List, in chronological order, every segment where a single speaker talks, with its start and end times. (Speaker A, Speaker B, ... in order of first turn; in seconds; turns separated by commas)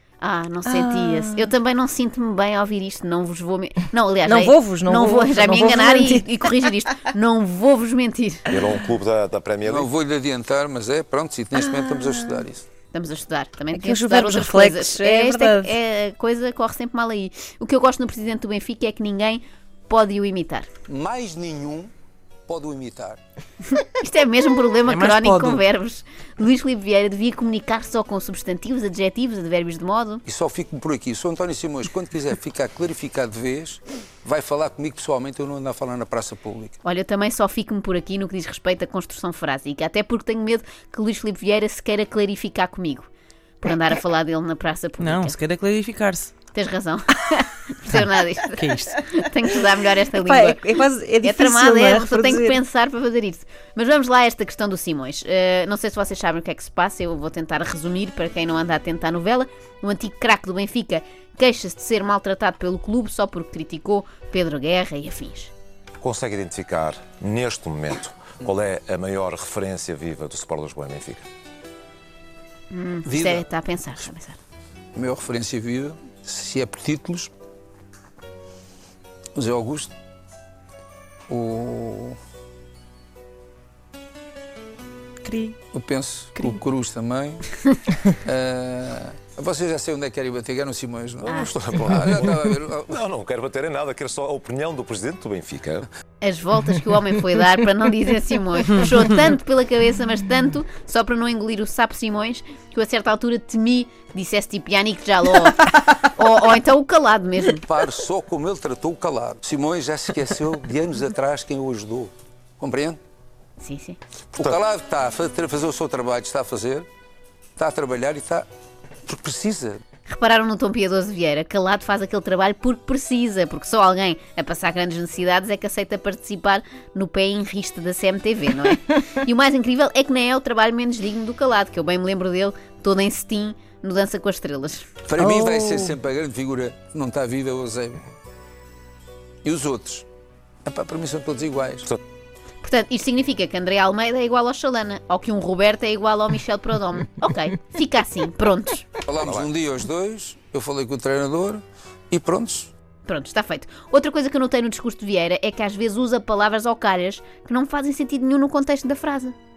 Speaker A: 0.2-8.5, Speaker B: 0.7-1.5, Speaker B: 4.3-6.5, Speaker C: 8.5-9.9, Speaker D: 9.7-12.7, Speaker B: 11.6-12.4, Speaker A: 12.9-20.7, Speaker B: 13.7-15.7, Speaker D: 20.9-21.9, Speaker D: 22.5-23.2, Speaker A: 23.7-30.2, Speaker E: 24.9-25.6, Speaker D: 30.3-36.8, Speaker A: 36.8-43.1, Speaker A: 43.6-45.4, Speaker E: 45.0-46.3, Speaker A: 46.5-65.5, Speaker E: 48.6-48.9, Speaker B: 50.2-52.6, Speaker C: 66.0-71.3, Speaker A: 72.7-74.4, Speaker D: 73.1-73.4, Speaker D: 75.0-77.3, Speaker D: 79.3-79.9, Speaker D: 81.3-82.2, Speaker B: 85.2-85.6, Speaker D: 85.7-87.5, Speaker D: 88.1-93.0, Speaker C: 91.2-95.9, Speaker A: 91.2-91.5, Speaker A: 96.2-107.6, Speaker D: 107.6-113.0, Speaker A: 113.6-114.0, Speaker D: 114.3-116.9, Speaker D: 117.6-118.5, Speaker D: 119.1-119.8, Speaker A: 120.1-134.9, Speaker D: 135.1-138.0, Speaker B: 135.2-135.9, Speaker D: 139.4-140.1, Speaker D: 140.7-141.9, Speaker A: 142.6-148.9, Speaker D: 149.1-152.7, Speaker C: 149.2-149.5, Speaker A: 153.1-159.3